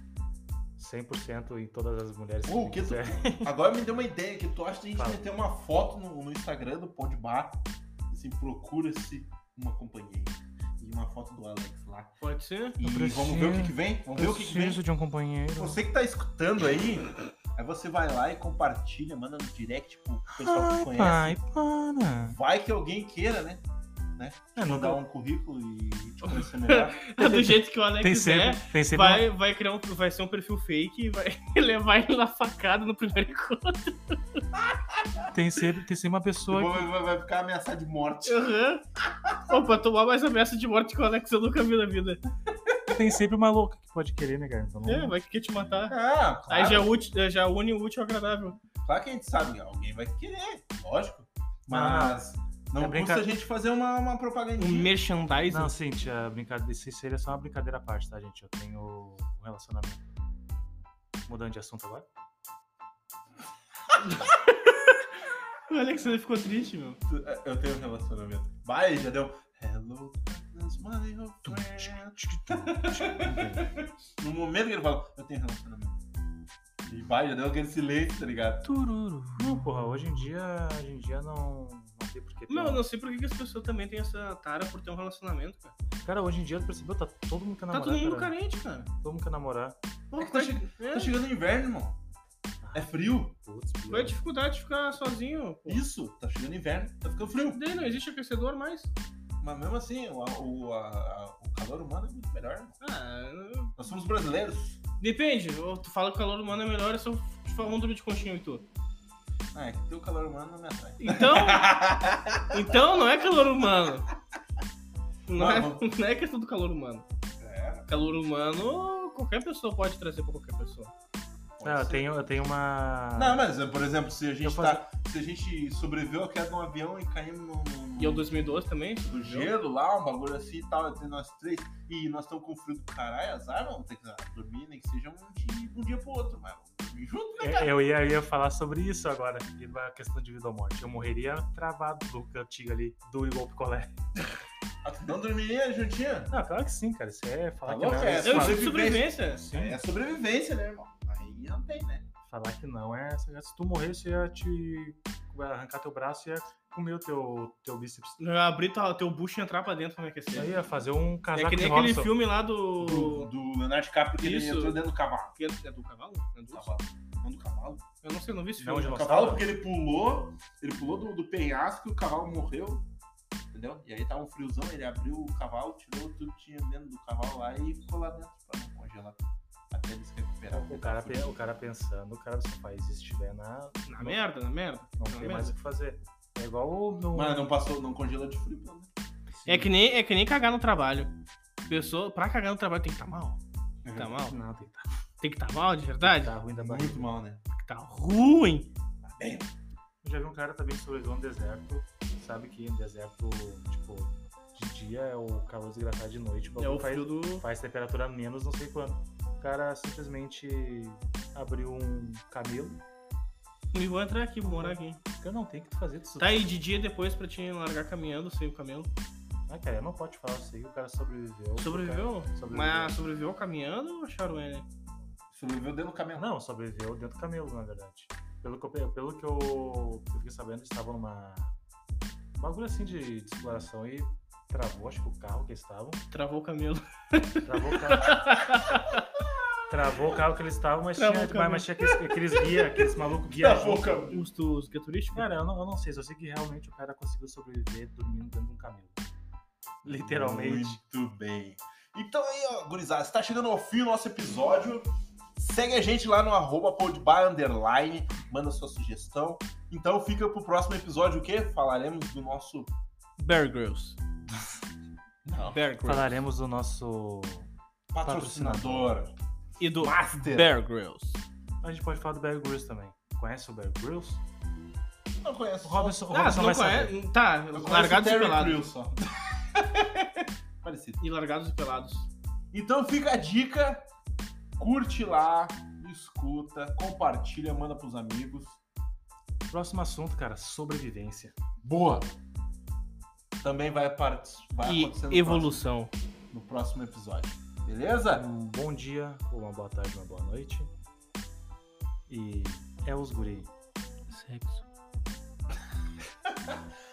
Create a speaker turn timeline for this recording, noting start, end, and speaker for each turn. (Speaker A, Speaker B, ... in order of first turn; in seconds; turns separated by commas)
Speaker A: 0.8-3.5, Speaker B: 2.5-12.2, Speaker A: 5.0-5.2, Speaker C: 12.2-12.8, Speaker B: 12.8-14.8, Speaker A: 12.8-15.8, Speaker B: 15.6-21.4, Speaker A: 20.4-22.4, Speaker B: 22.2-23.6, Speaker B: 24.2-27.1, Speaker A: 24.6-25.0, Speaker C: 26.2-34.4, Speaker A: 27.2-29.3, Speaker B: 34.6-35.3, Speaker A: 35.3-36.9, Speaker B: 36.5-38.5, Speaker C: 38.2-38.8, Speaker B: 39.0-39.6, Speaker C: 39.5-42.2, Speaker B: 42.7-43.0, Speaker A: 42.9-45.1, Speaker C: 44.9-46.0, Speaker B: 45.9-46.9, Speaker C: 46.5-48.6, Speaker B: 48.8-54.9, Speaker A: 51.7-53.3, Speaker C: 54.6-55.8, Speaker A: 55.5-60.1, Speaker A: 61.3-62.1, Speaker C: 64.0-65.0, Speaker C: 65.7-67.0, Speaker B: 67.1-76.0, Speaker A: 71.5-73.7, Speaker B: 76.9-78.7, Speaker A: 78.7-82.8, Speaker C: 79.1-79.4, Speaker C: 82.5-85.7, Speaker A: 86.0-88.3, Speaker C: 87.7-88.9, Speaker A: 89.0-89.8, Speaker C: 90.1-91.1, Speaker B: 90.2-92.0, Speaker A: 92.6-94.2, Speaker B: 92.7-93.3, Speaker C: 93.9-95.8, Speaker B: 95.7-97.6, Speaker C: 97.4-98.9, Speaker B: 99.4-102.8, Speaker C: 102.8-103.8, Speaker B: 103.8-104.8, Speaker C: 105.0-108.6, Speaker B: 109.5-112.6, Speaker C: 111.0-111.7, Speaker C: 112.5-114.1, Speaker C: 115.3-117.0, Speaker B: 115.4-115.8, Speaker B: 117.4-117.9, Speaker C: 117.9-120.9, Speaker B: 121.6-122.3, Speaker A: 121.6-123.5, Speaker B: 123.2-128.3, Speaker A: 124.4-124.8, Speaker C: 128.0-129.5, Speaker B: 129.1-137.7, Speaker A: 137.4-143.9, Speaker B: 144.8-146.3, Speaker A: 146.3-148.8, Speaker B: 147.7-152.1, Speaker C: 148.2-149.4, Speaker A: 149.4-149.8, Speaker A: 152.3-158.2, Speaker C: 158.2-160.5, Speaker A: 160.4-162.1, Speaker C: 161.3-163.3, Speaker B: 162.8-165.3, Speaker C: 164.2-164.8, Speaker C: 165.3-166.8, Speaker B: 166.5-167.8, Speaker C: 168.0-168.9, Speaker A: 168.6-169.5, Speaker B: 168.8-172.9, Speaker B: 173.5-181.3, Speaker A: 180.5-184.2, Speaker C: 183.9-185.5, Speaker A: 185.0-187.6, Speaker B: 187.1-188.9, Speaker A: 189.4-189.7, Speaker C: 189.5-191.1, Speaker C: 191.7-193.4, Speaker B: 193.8-194.2, Speaker C: 194.0-194.4, Speaker A: 194.2-195.0, Speaker C: 195.2-196.4, Speaker A: 196.0-197.1, Speaker B: 196.5-197.4, Speaker C: 197.6-198.7, Speaker B: 199.0-199.5, Speaker A: 200.0-212.8, Speaker C: 206.6-207.4, Speaker C: 213.7-215.0, Speaker A: 214.4-216.6, Speaker C: 216.2-218.9, Speaker A: 219.5-222.9, Speaker C: 221.6-224.7, Speaker B: 225.3-226.3, Speaker A: 226.2-231.6, Speaker A: 232.3-236.0, Speaker C: 236.1-239.0, Speaker A: 237.4-238.3, Speaker A: 239.7-244.1, Speaker C: 241.0-242.4, Speaker B: 243.2-244.2, Speaker C: 244.1-245.2, Speaker A: 245.1-249.0, Speaker B: 249.8-262.7, Speaker A: 249.8-250.8, Speaker C: 263.2-264.0, Speaker B: 265.2-265.6, Speaker C: 265.5-266.2, Speaker A: 265.8-269.0, Speaker B: 267.9-269.1, Speaker C: 269.6-271.2, Speaker B: 269.8-270.5, Speaker A: 271.6-274.2, Speaker B: 275.2-276.0, Speaker A: 275.6-277.0, Speaker C: 276.1-278.6, Speaker B: 277.5-281.0, Speaker C: 281.0-282.1, Speaker B: 282.5-283.9, Speaker B: 284.6-288.6, Speaker A: 289.5-291.4, Speaker B: 291.6-292.1, Speaker B: 293.4-295.6, Speaker C: 294.6-295.9, Speaker B: 296.3-298.2, Speaker A: 298.1-300.7, Speaker A: 302.1-303.5, Speaker C: 304.1-304.6, Speaker B: 306.2-306.6